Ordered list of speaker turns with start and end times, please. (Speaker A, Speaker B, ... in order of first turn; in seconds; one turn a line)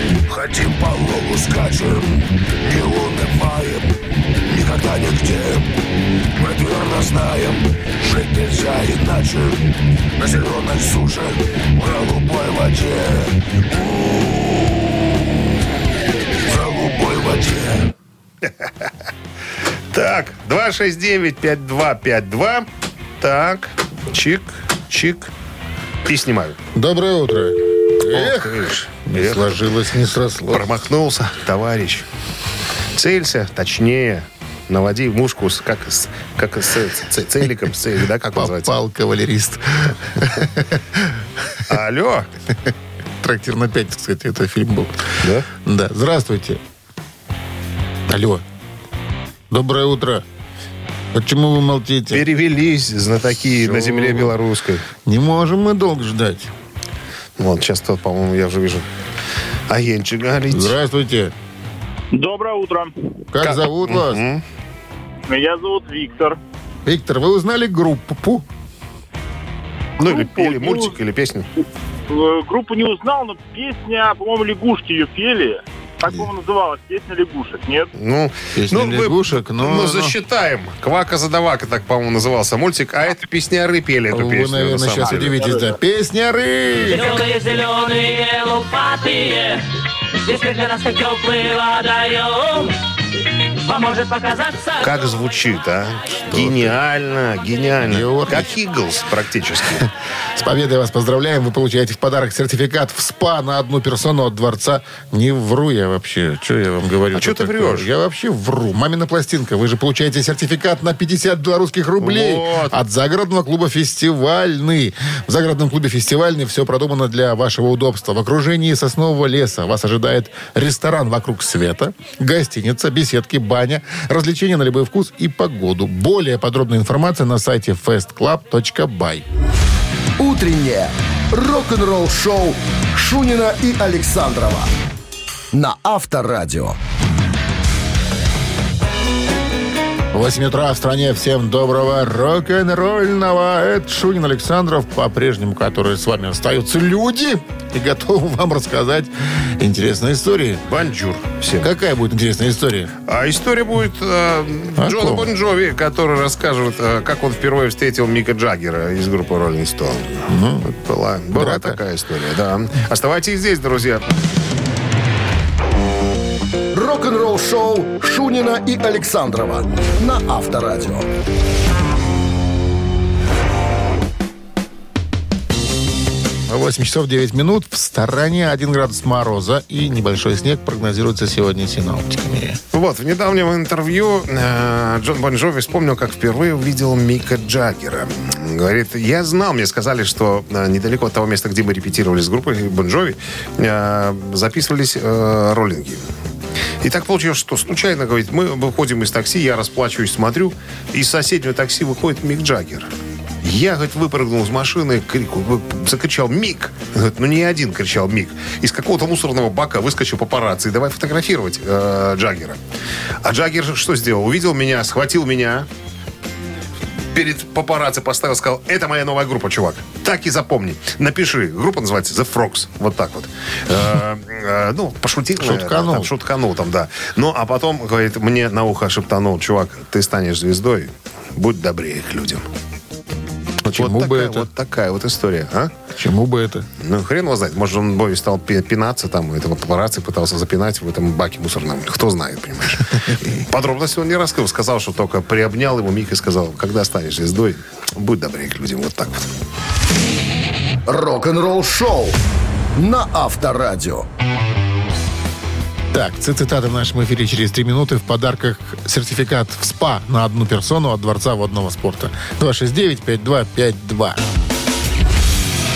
Speaker A: 0.3-3.9
Speaker A: 4.5-5.6
Speaker A: 6.4-9.6
Speaker A: 10.2-13.3
Speaker A: 16.4-17.9
Speaker B: 19.9-22.6
Speaker B: 23.2-25.3
Speaker B: 26.0-26.6
Speaker C: 26.7-30.7
Speaker B: 28.0-29.6
Speaker B: 30.5-32.0
Speaker B: 32.9-38.7
Speaker C: 38.3-41.2
Speaker B: 41.7-42.3
Speaker C: 43.2-46.6
Speaker B: 45.2-45.5
Speaker C: 48.1-48.4
Speaker C: 49.5-50.2
Speaker C: 51.1-52.2
Speaker B: 52.1-54.9
Speaker C: 53.6-54.3
Speaker C: 55.0-56.5
Speaker B: 57.4-58.9
Speaker B: 59.7-60.8
Speaker C: 60.5-61.3
Speaker D: 62.1-63.1
Speaker C: 63.3-64.2
Speaker B: 63.4-64.4
Speaker D: 65.3-66.4
Speaker C: 66.8-68.5
Speaker B: 70.0-71.5
Speaker D: 70.0-70.9
Speaker D: 72.1-77.9
Speaker B: 77.9-85.4
Speaker C: 78.5-80.1
Speaker C: 84.1-87.1
Speaker D: 85.3-85.7
Speaker E: 86.9-89.6
Speaker E: 90.2-92.7
Speaker E: 93.6-94.9
Speaker B: 94.8-99.9
Speaker C: 96.3-96.7
Speaker C: 97.8-98.5
Speaker C: 100.3-129.2
Speaker B: 107.1-107.9
Speaker B: 112.0-112.8
Speaker F: 130.2-134.7
Speaker F: 135.5-136.8
Speaker C: 140.1-150.6
Speaker B: 150.7-151.7
Speaker C: 151.6-152.9
Speaker B: 153.1-164.1
Speaker C: 154.8-155.3
Speaker C: 160.3-160.7
Speaker C: 161.3-161.8
Speaker F: 166.7-171.1
Speaker C: 176.5-182.6
Speaker B: 182.7-196.0
Speaker B: 196.8-202.9
Speaker B: 203.4-212.6
Speaker B: 213.2-215.7
Speaker B: 217.1-232.4
Speaker C: 225.4-226.1
Speaker C: 233.6-234.5
Speaker B: 233.6-235.7
Speaker C: 235.9-236.7
Speaker B: 236.8-249.3
Speaker F: 250.8-252.2
Speaker F: 252.8-254.1
Speaker C: 255.9-264.2